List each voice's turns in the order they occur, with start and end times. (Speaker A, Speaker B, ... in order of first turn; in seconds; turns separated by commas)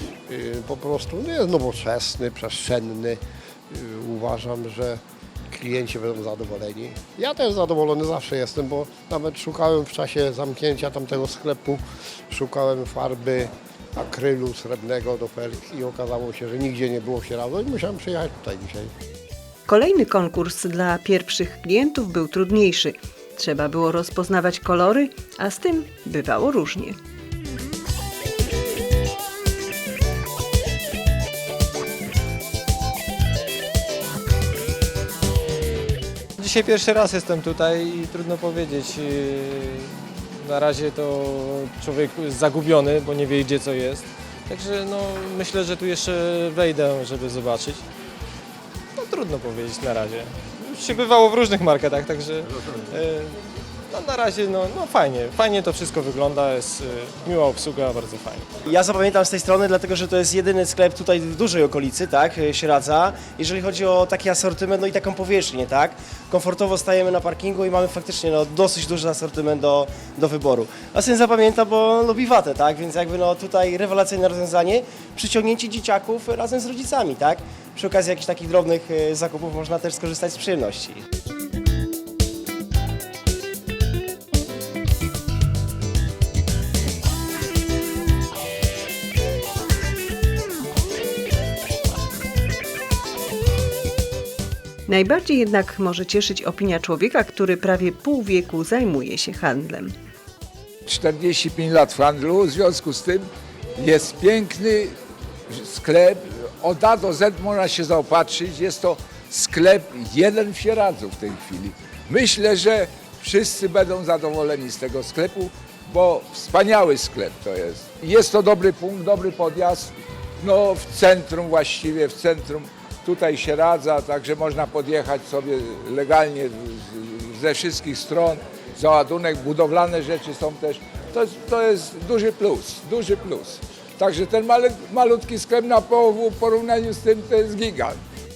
Speaker A: 0.3-5.0, Speaker A: 5.5-18.9, Speaker B: 19.7-26.9, Speaker C: 36.5-39.6, Speaker C: 40.4-47.8, Speaker C: 49.0-52.4, Speaker C: 52.9-53.3, Speaker C: 53.9-58.5, Speaker D: 58.8-80.9, Speaker B: 94.9-99.9, Speaker E: 100.9-104.9, Speaker E: 105.5-138.0